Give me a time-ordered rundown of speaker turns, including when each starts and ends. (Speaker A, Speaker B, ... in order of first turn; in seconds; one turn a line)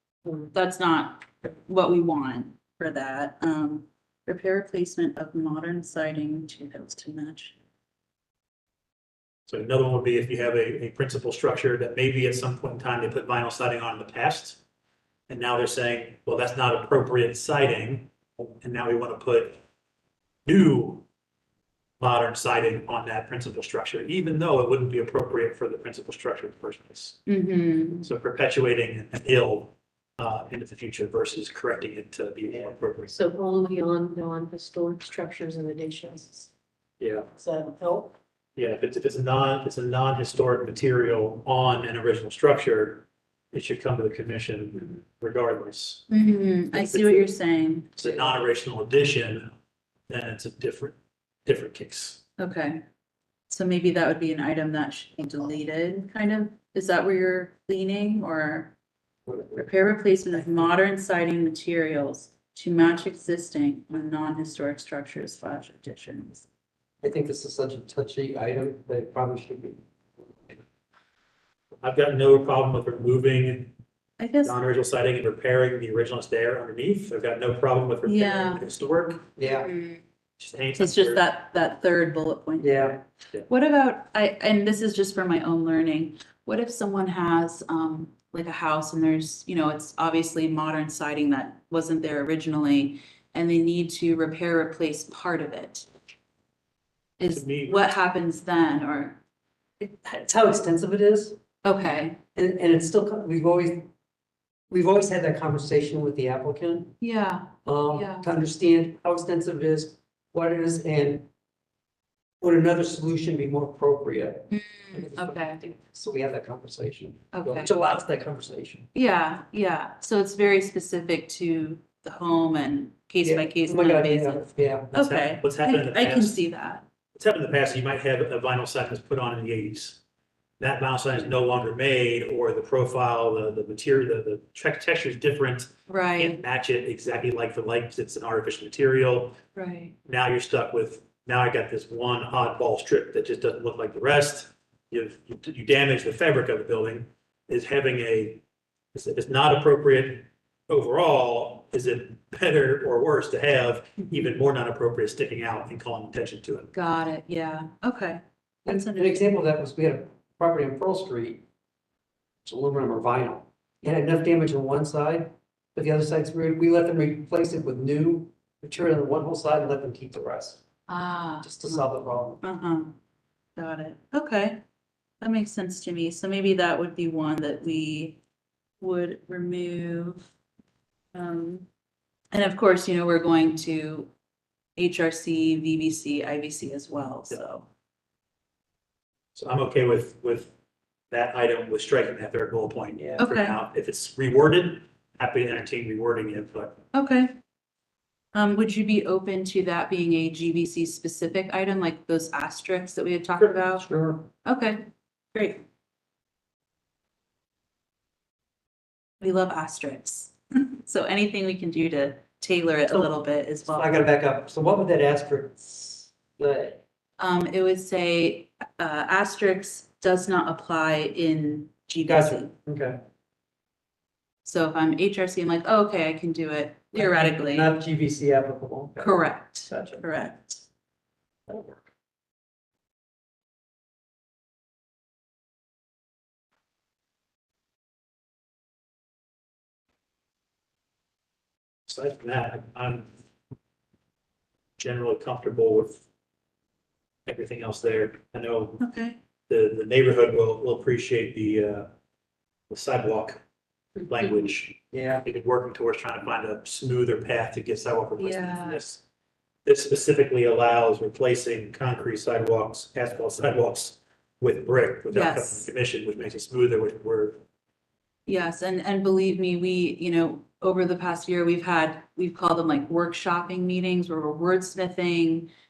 Speaker A: 0.3-7.5
Speaker B: 9.5-14.6
Speaker B: 15.3-19.6
Speaker B: 20.5-21.0
Speaker B: 22.0-27.2
Speaker A: 27.3-28.1
Speaker B: 28.0-33.1
Speaker C: 33.1-36.5
Speaker B: 37.0-37.3
Speaker C: 37.3-38.1
Speaker B: 38.6-46.1
Speaker A: 46.1-47.9
Speaker B: 46.7-47.3
Speaker B: 47.9-49.5
Speaker B: 50.1-52.2
Speaker A: 52.4-52.8
Speaker A: 53.5-58.7
Speaker D: 59.3-59.7
Speaker A: 59.5-66.5
Speaker D: 67.0-69.8
Speaker B: 71.8-73.7
Speaker A: 74.2-74.5
Speaker B: 74.4-79.3
Speaker A: 78.0-78.7
Speaker D: 79.4-79.7
Speaker A: 79.4-80.0
Speaker B: 80.4-81.2
Speaker A: 80.8-95.9
Speaker D: 82.6-83.0
Speaker A: 97.2-99.2
Speaker B: 97.3-97.9
Speaker D: 99.8-101.4
Speaker A: 101.6-102.2
Speaker D: 102.3-103.9
Speaker D: 104.7-107.0
Speaker A: 107.0-108.3
Speaker D: 107.7-111.3
Speaker D: 112.4-118.9
Speaker A: 114.5-115.6
Speaker A: 117.3-117.7
Speaker A: 118.9-126.8
Speaker D: 123.2-125.0
Speaker B: 125.0-126.4
Speaker B: 127.2-130.0
Speaker B: 130.6-139.4
Speaker A: 135.9-136.4
Speaker A: 139.6-139.9
Speaker B: 140.1-148.4
Speaker B: 148.9-156.7
Speaker A: 156.7-159.2
Speaker D: 158.7-161.4
Speaker D: 162.4-170.6
Speaker A: 170.9-171.9
Speaker D: 171.4-172.4
Speaker A: 172.4-173.0
Speaker A: 173.6-174.6
Speaker A: 175.2-178.2
Speaker A: 178.8-180.3
Speaker A: 181.1-181.7
Speaker A: 182.3-184.1
Speaker A: 184.8-187.7
Speaker B: 189.3-190.5
Speaker B: 191.1-196.8
Speaker A: 193.2-193.6
Speaker A: 196.9-197.4
Speaker A: 198.3-203.9
Speaker D: 203.8-204.3
Speaker A: 204.4-205.6
Speaker A: 209.2-214.0
Speaker D: 213.7-216.8
Speaker A: 217.2-222.5
Speaker D: 222.1-223.0
Speaker A: 224.4-227.7
Speaker D: 226.9-230.1
Speaker A: 229.0-230.6
Speaker D: 231.5-231.9
Speaker B: 241.9-243.1
Speaker B: 244.8-246.0
Speaker B: 247.2-248.8
Speaker A: 248.8-249.2
Speaker B: 249.5-251.9
Speaker B: 252.7-253.4
Speaker B: 254.0-259.0
Speaker D: 254.9-255.2
Speaker A: 258.2-258.8
Speaker B: 259.6-267.4
Speaker A: 265.1-265.7
Speaker A: 268.3-275.5